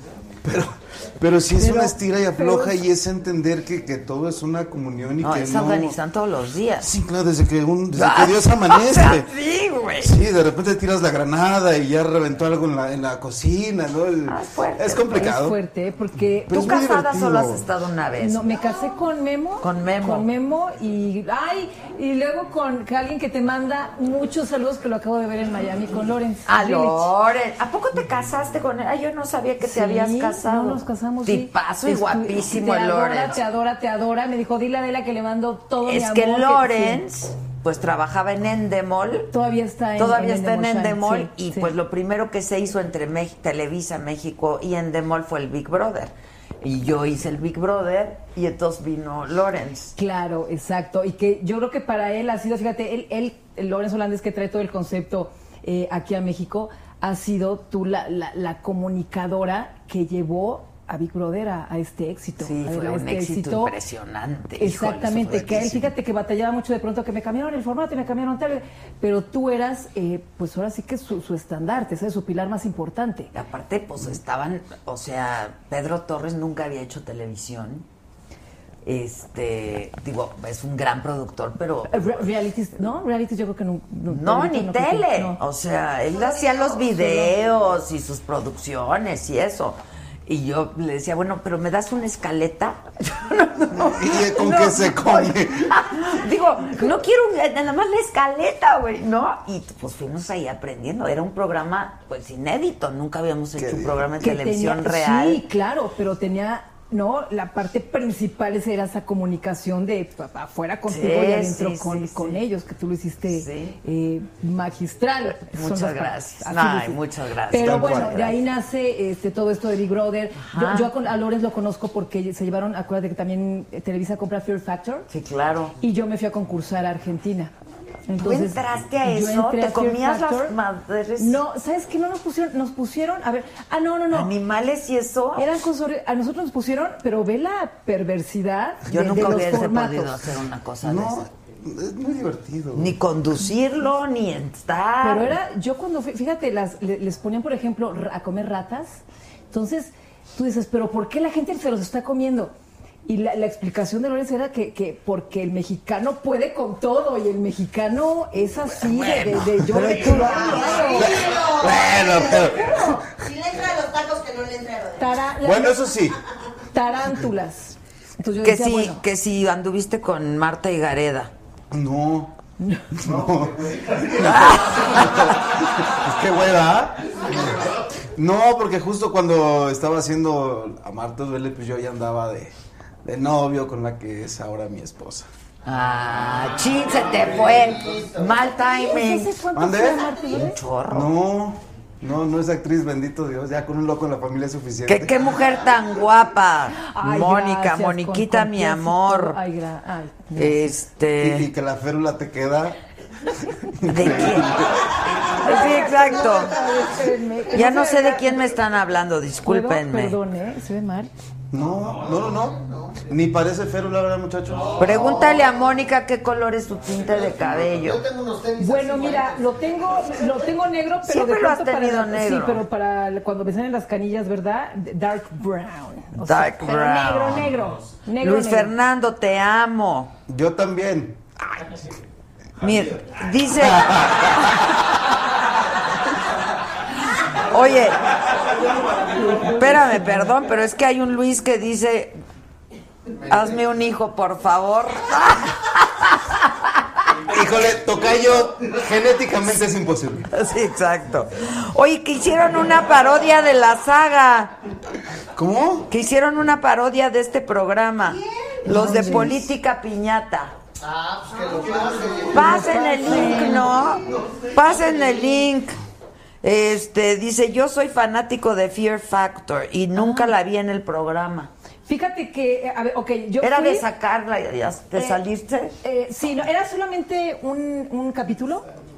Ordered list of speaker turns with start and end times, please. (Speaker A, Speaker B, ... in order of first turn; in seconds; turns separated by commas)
Speaker A: 0.4-6.0, Speaker B: 1.5-2.8, Speaker C: 5.2-6.9, Speaker A: 6.8-9.3, Speaker C: 7.9-10.2, Speaker A: 10.0-15.6, Speaker C: 14.3-15.2, Speaker B: 15.1-16.6, Speaker A: 16.5-17.7, Speaker C: 16.5-18.6, Speaker B: 18.2-27.1, Speaker C: 19.6-20.3, Speaker C: 26.4-33.4, Speaker B: 29.6-37.0, Speaker C: 35.8-39.3, Speaker B: 39.3-41.7, Speaker C: 40.0-49.9, Speaker B: 50.0-63.7, Speaker C: 62.4-65.9, Speaker B: 64.6-73.3, Speaker C: 73.3-77.8, Speaker C: 78.8-82.3, Speaker B: 81.9-85.4, Speaker C: 84.1-105.4, Speaker B: 86.3-87.3, Speaker A: 93.7-95.7, Speaker A: 103.5-104.1, Speaker B: 104.1-125.1, Speaker C: 110.9-112.4, Speaker C: 113.3-113.8, Speaker C: 115.4-118.4, Speaker A: 117.6-118.1, Speaker C: 120.3-120.9, Speaker C: 125.1-125.8, Speaker B: 125.8-127.5, Speaker B: 128.1-130.6, Speaker C: 128.2-131.4, Speaker B: 131.2-134.3, Speaker C: 134.1-135.6, Speaker B: 135.3-140.2, Speaker C: 138.8-141.2, Speaker A: 140.8-142.9, Speaker C: 142.7-145.4, Speaker B: 145.0-152.5, Speaker B: 153.1-161.2, Speaker C: 158.8-161.0, Speaker D: 159.9-165.1, Speaker A: 161.0-162.7, Speaker B: 162.6-163.0, Speaker B: 165.0-166.0, Speaker A: 165.4-166.2, Speaker B: 166.7-169.0, Speaker C: 168.4-171.3, Speaker A: 171.7-172.3, Speaker B: 172.6-173.0, Speaker A: 172.9-177.6, Speaker E: 173.3-174.6, Speaker C: 174.2-175.3, Speaker E: 177.2-177.7, Speaker A: 178.1-185.3, Speaker C: 185.7-189.4, Speaker E: 186.3-188.6, Speaker B: 188.8-190.6, Speaker A: 189.5-190.1, Speaker D: 189.9-190.4, Speaker C: 190.2-191.1, Speaker A: 190.9-195.6, Speaker C: 194.8-199.4, Speaker B: 196.8-200.8, Speaker C: 200.3-201.5, Speaker A: 201.2-202.8, Speaker A: 203.8-204.7, Speaker C: 203.8-206.6, Speaker B: 205.3-208.4, Speaker C: 207.5-210.2, Speaker B: 209.4-211.1, Speaker A: 211.5-215.0, Speaker E: 212.4-212.9, Speaker C: 214.7-218.0, Speaker E: 214.9-215.4, Speaker E: 217.0-219.6, Speaker B: 218.6-228.7, Speaker C: 221.0-222.6, Speaker C: 226.2-227.6, Speaker C: 228.2-230.1, Speaker A: 230.3-231.2, Speaker C: 232.6-234.4, Speaker A: 233.5-234.6, Speaker C: 237.4-238.0, Speaker B: 239.1-240.3, Speaker C: 239.4-242.2, Speaker E: 243.2-243.6, Speaker C: 243.3-247.1, Speaker A: 247.3-250.3, Speaker C: 250.3-254.5, Speaker A: 255.3-255.9, Speaker C: 255.9-260.5, Speaker D: 258.0-258.7, Speaker B: 258.6-259.4, Speaker E: 260.8-264.5, Speaker D: 261.3-261.6, Speaker C: 262.3-265.8, Speaker B: 262.3-263.6, Speaker C: 266.4-271.5, Speaker B: 269.9-270.3, Speaker B: 271.9-273.8, Speaker C: 273.4-275.8, Speaker B: 274.9-275.2, Speaker B: 275.8-278.6